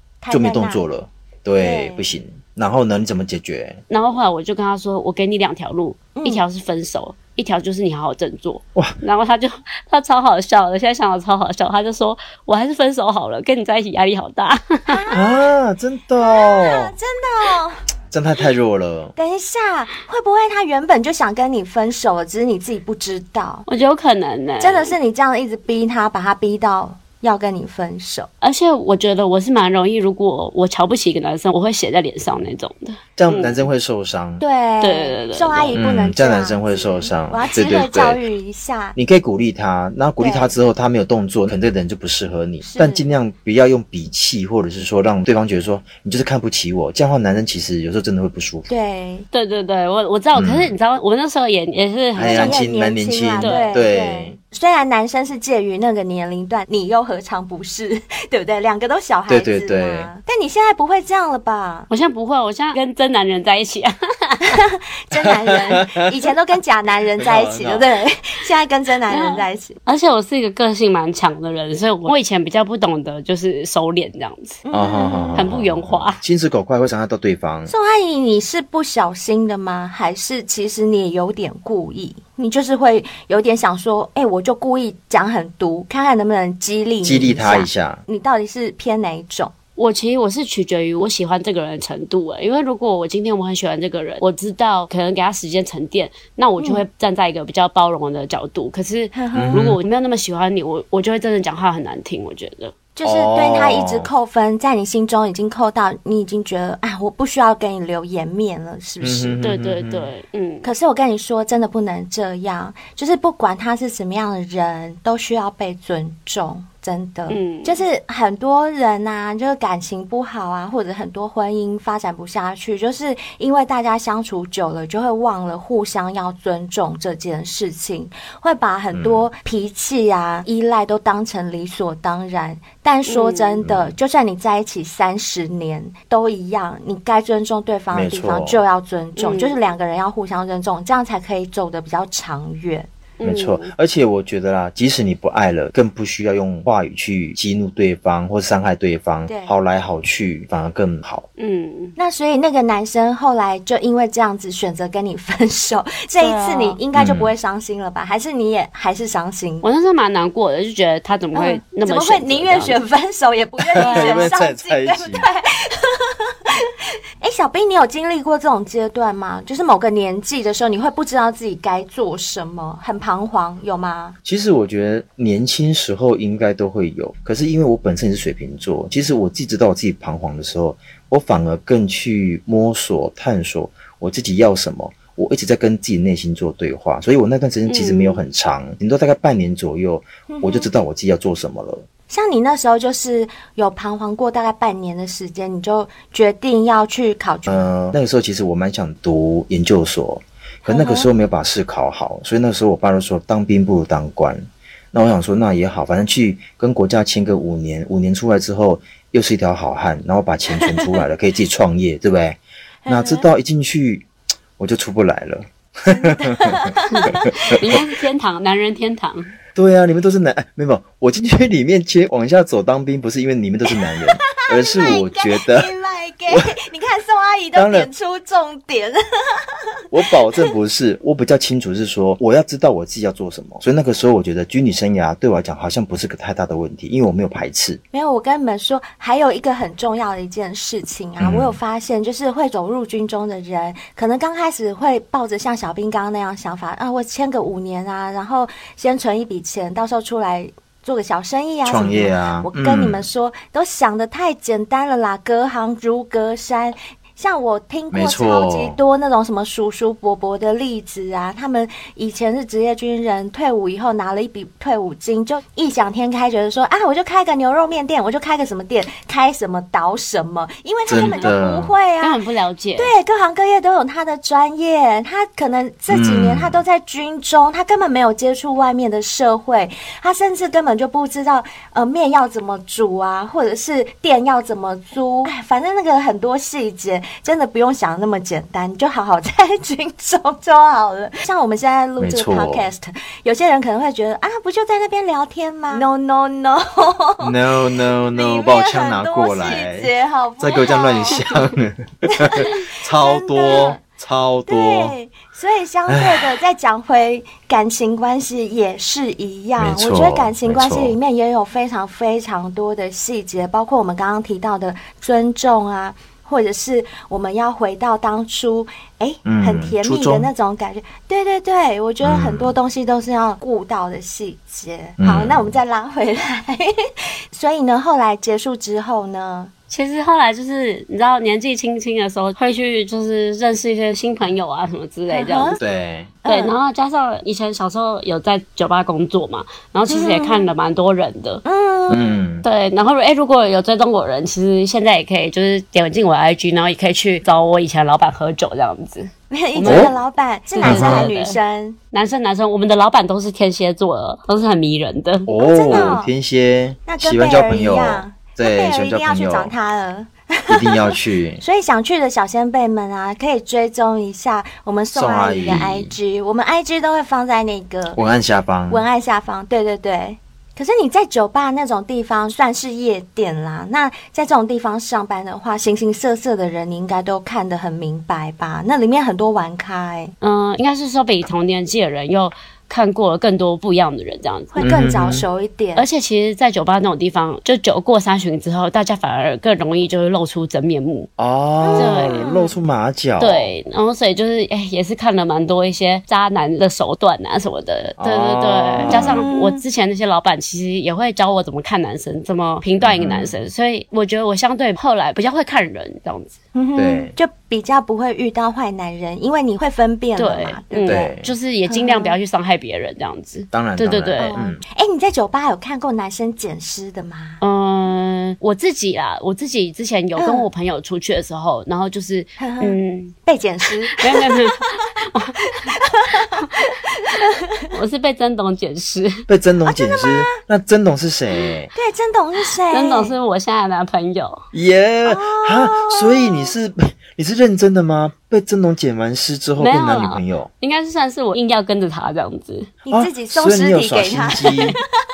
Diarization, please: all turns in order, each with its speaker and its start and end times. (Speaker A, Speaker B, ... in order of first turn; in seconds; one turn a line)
Speaker A: 0.2-0.8
Speaker B: 0.3-3.8
Speaker A: 1.6-2.1
Speaker C: 3.9-15.1
Speaker A: 6.1-6.4
Speaker A: 14.9-15.4
Speaker B: 15.1-16.9
Speaker A: 16.2-17.8
Speaker B: 18.1-19.1
Speaker A: 19.1-23.6
Speaker C: 23.7-24.9
Speaker A: 24.6-28.3
Speaker C: 28.4-33.7
Speaker B: 33.2-34.4
Speaker A: 34.4-39.0
Speaker C: 34.8-35.8
Speaker B: 35.6-38.2
Speaker B: 38.9-48.7
Speaker A: 40.2-40.5
Speaker A: 42.6-43.0
Speaker A: 48.7-49.2
Speaker C: 49.3-52.6
Speaker B: 50.3-50.7
Speaker B: 52.1-54.4
Speaker A: 52.2-61.9
Speaker C: 53.4-53.8
Speaker B: 59.3-60.1
Speaker C: 61.9-64.6
Speaker A: 64.4-69.8
Speaker B: 65.1-66.0
Speaker B: 67.2-67.9
Speaker C: 69.1-74.6
Speaker A: 74.6-75.5
Speaker B: 74.7-77.7
Speaker C: 75.3-76.2
Speaker A: 77.7-89.5
Speaker B: 87.0-88.0
Speaker C: 89.8-102.7
Speaker A: 99.1-99.6
Speaker B: 99.3-99.8
Speaker A: 103.0-109.4
Speaker B: 103.0-104.1
Speaker B: 109.0-110.1
Speaker C: 109.4-110.7
Speaker A: 110.6-142.9
Speaker C: 117.3-117.8
Speaker B: 128.9-129.3
Speaker C: 133.1-133.6
Speaker B: 133.6-133.9
Speaker B: 137.9-138.6
Speaker C: 139.2-139.6
Speaker C: 143.2-143.7
Speaker B: 143.2-151.2
Speaker A: 149.3-149.5
Speaker C: 151.4-151.9
Speaker A: 152.0-159.7
Speaker C: 156.2-156.8
Speaker B: 156.9-157.3
Speaker C: 159.6-162.8
Speaker A: 161.3-174.2
Speaker B: 163.6-165.2
Speaker C: 163.8-164.3
Speaker B: 174.2-191.8
Speaker C: 187.7-188.2
Speaker A: 190.3-190.7
Speaker A: 192.1-197.7
Speaker B: 197.5-214.1
Speaker A: 200.7-201.1
Speaker A: 212.8-213.2
Speaker B: 214.6-217.8
Speaker A: 215.8-217.3
Speaker C: 216.9-219.3
Speaker B: 219.5-225.7
Speaker A: 223.9-229.8
Speaker B: 227.5-227.9
Speaker B: 229.9-237.8
Speaker A: 237.9-272.2
Speaker B: 241.2-241.6
Speaker B: 251.6-253.1
Speaker B: 257.9-258.8
Speaker B: 270.9-271.7
Speaker C: 271.0-271.3
Speaker C: 272.0-272.9
Speaker A: 272.8-297.3
Speaker B: 275.9-276.6
Speaker B: 292.0-292.7
Speaker B: 297.2-304.9
Speaker A: 298.1-301.4
Speaker A: 302.1-303.8
Speaker A: 304.5-326.7
Speaker B: 305.9-306.3
Speaker B: 309.6-310.9
Speaker B: 319.2-320.3
Speaker B: 322.0-322.6
Speaker B: 325.0-325.5
Speaker A: 327.3-329.5
Speaker C: 329.7-335.6
Speaker A: 335.1-335.6
Speaker B: 335.6-336.1
Speaker A: 336.2-336.5
Speaker C: 336.2-341.4
Speaker A: 339.9-340.5
Speaker A: 341.4-342.1
Speaker B: 341.9-342.4
Speaker C: 342.4-349.9
Speaker A: 349.3-351.8
Speaker B: 349.6-349.9
Speaker C: 350.5-351.4
Speaker B: 350.6-351.1
Speaker C: 351.9-355.9
Speaker B: 355.3-359.5
Speaker A: 355.4-356.1
Speaker A: 356.9-368.0
Speaker B: 360.5-361.4
Speaker B: 364.9-365.9
Speaker B: 367.9-368.8
Speaker A: 368.7-380.1
Speaker C: 380.2-384.6
Speaker A: 384.5-385.9
Speaker B: 384.6-385.2
Speaker C: 385.7-391.1
Speaker B: 391.2-393.5
Speaker A: 391.6-392.5
Speaker C: 391.8-392.3
Speaker C: 393.2-406.4
Speaker B: 398.0-399.2
Speaker A: 398.8-399.6
Speaker B: 402.8-403.3
Speaker A: 406.5-411.1
Speaker B: 406.8-407.1
Speaker C: 410.1-414.4
Speaker B: 410.9-411.3
Speaker A: 411.7-412.2
Speaker B: 413.5-414.6
Speaker A: 414.2-417.4
Speaker C: 417.4-423.1
Speaker A: 420.2-420.4
Speaker A: 422.4-424.8
Speaker C: 423.9-425.6
Speaker A: 425.5-427.6
Speaker C: 427.7-429.2
Speaker B: 429.3-431.7
Speaker A: 429.7-430.3
Speaker A: 431.7-433.1
Speaker C: 432.7-434.4
Speaker B: 434.5-440.5
Speaker A: 435.0-436.5
Speaker C: 439.6-442.7
Speaker A: 442.8-444.8
Speaker B: 442.9-444.8